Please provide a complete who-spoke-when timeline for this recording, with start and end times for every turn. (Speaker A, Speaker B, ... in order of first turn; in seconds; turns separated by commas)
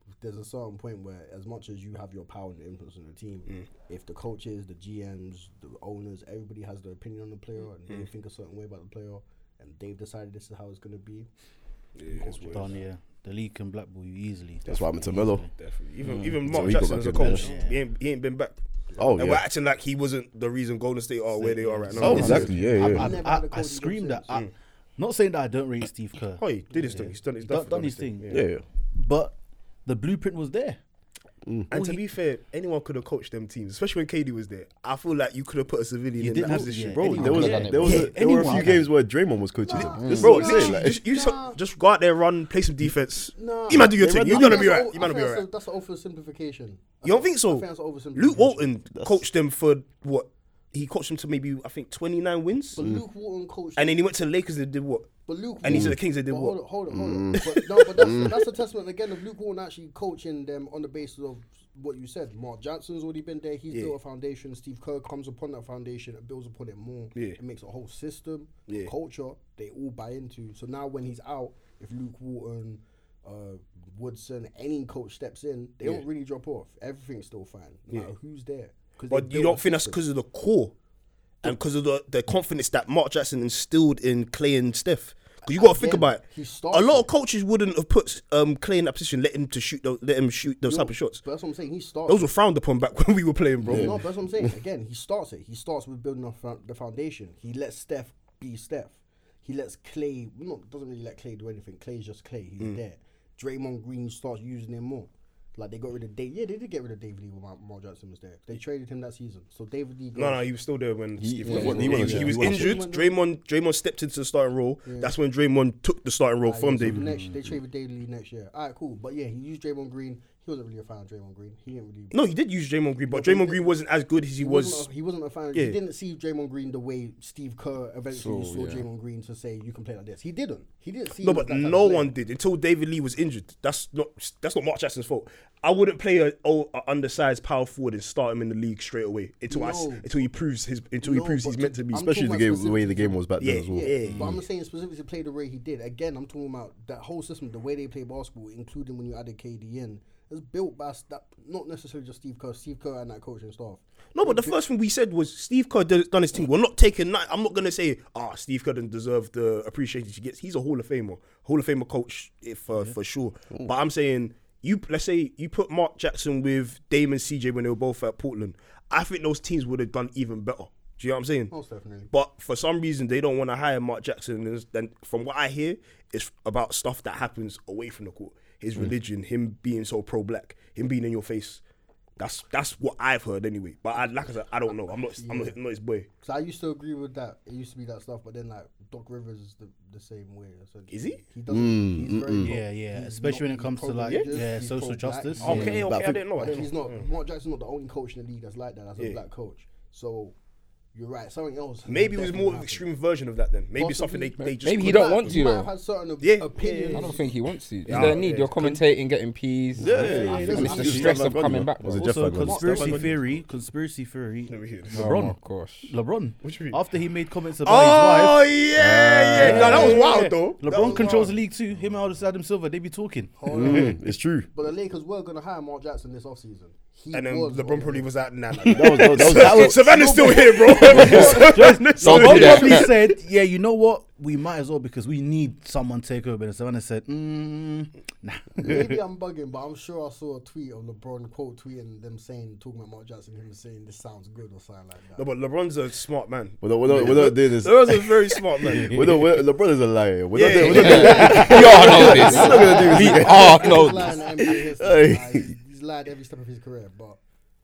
Speaker A: 0.2-11.3, Speaker B: 12.0-12.7, Speaker A: 12.1-12.8, Speaker C: 12.4-15.5, Speaker D: 14.7-15.5, Speaker B: 15.5-18.6, Speaker E: 16.1-16.3, Speaker D: 16.4-17.4, Speaker C: 17.1-17.8, Speaker D: 19.0-19.4, Speaker B: 19.1-22.5, Speaker C: 21.4-28.3, Speaker D: 22.0-23.1, Speaker A: 22.1-24.4, Speaker B: 26.4-28.4, Speaker D: 28.3-28.6, Speaker C: 28.9-30.8, Speaker B: 31.7-38.5, Speaker C: 31.7-32.0, Speaker C: 36.2-38.9, Speaker D: 37.0-41.0, Speaker E: 37.2-38.1, Speaker A: 39.6-41.6, Speaker B: 39.7-45.5, Speaker E: 39.8-40.5, Speaker A: 43.4-48.7, Speaker D: 43.7-44.8, Speaker B: 47.0-52.8, Speaker D: 49.0-49.2, Speaker A: 52.8-54.0, Speaker B: 53.8-56.6, Speaker A: 55.3-80.0, Speaker D: 55.7-56.0, Speaker D: 56.9-58.4, Speaker B: 79.1-80.7, Speaker B: 81.4-91.2, Speaker A: 85.5-87.1, Speaker A: 90.7-92.3, Speaker B: 92.1-94.1, Speaker A: 93.6-110.5, Speaker D: 93.7-94.5, Speaker B: 110.2-117.1, Speaker D: 111.2-112.8, Speaker E: 111.4-112.3, Speaker A: 111.6-113.2, Speaker A: 114.8-115.2, Speaker A: 116.5-122.2, Speaker C: 116.8-117.3, Speaker B: 122.1-124.9, Speaker A: 123.1-123.7, Speaker A: 124.4-132.1, Speaker B: 125.5-125.8, Speaker E: 128.1-128.8, Speaker B: 131.2-142.0, Speaker A: 139.5-140.1, Speaker A: 141.0-154.6, Speaker D: 141.9-144.1, Speaker B: 143.4-144.3, Speaker C: 144.1-144.4, Speaker B: 154.1-171.5, Speaker A: 171.5-172.1, Speaker B: 172.1-181.6, Speaker B: 182.2-186.1, Speaker A: 185.2-185.6, Speaker A: 186.2-200.3, Speaker B: 190.9-191.2, Speaker D: 191.5-192.6, Speaker C: 192.4-195.7, Speaker B: 194.1-194.4, Speaker B: 195.4-197.1, Speaker E: 195.4-195.8, Speaker D: 195.8-196.2, Speaker B: 199.0-199.2, Speaker A: 200.9-202.9, Speaker B: 201.9-205.4, Speaker A: 203.8-207.3, Speaker E: 204.6-205.7, Speaker B: 206.2-207.2, Speaker E: 206.9-212.3, Speaker B: 207.8-208.8, Speaker A: 207.9-208.2, Speaker D: 209.8-213.0, Speaker C: 209.8-211.1, Speaker A: 209.8-211.4, Speaker C: 211.9-218.4, Speaker B: 212.4-213.4, Speaker A: 212.4-213.1, Speaker B: 214.5-215.1, Speaker E: 214.9-215.9, Speaker B: 216.4-216.8, Speaker B: 217.6-221.4, Speaker D: 218.8-220.0, Speaker C: 219.4-223.3, Speaker A: 219.5-221.4, Speaker A: 223.4-228.1, Speaker D: 223.5-224.5, Speaker B: 227.1-232.9, Speaker D: 228.7-229.9, Speaker C: 229.2-239.0, Speaker A: 229.9-231.7, Speaker E: 230.9-232.9, Speaker D: 231.0-231.4, Speaker A: 238.6-245.3, Speaker B: 245.2-249.3, Speaker D: 246.6-255.5, Speaker B: 250.3-252.8, Speaker A: 250.6-257.2, Speaker E: 250.7-254.2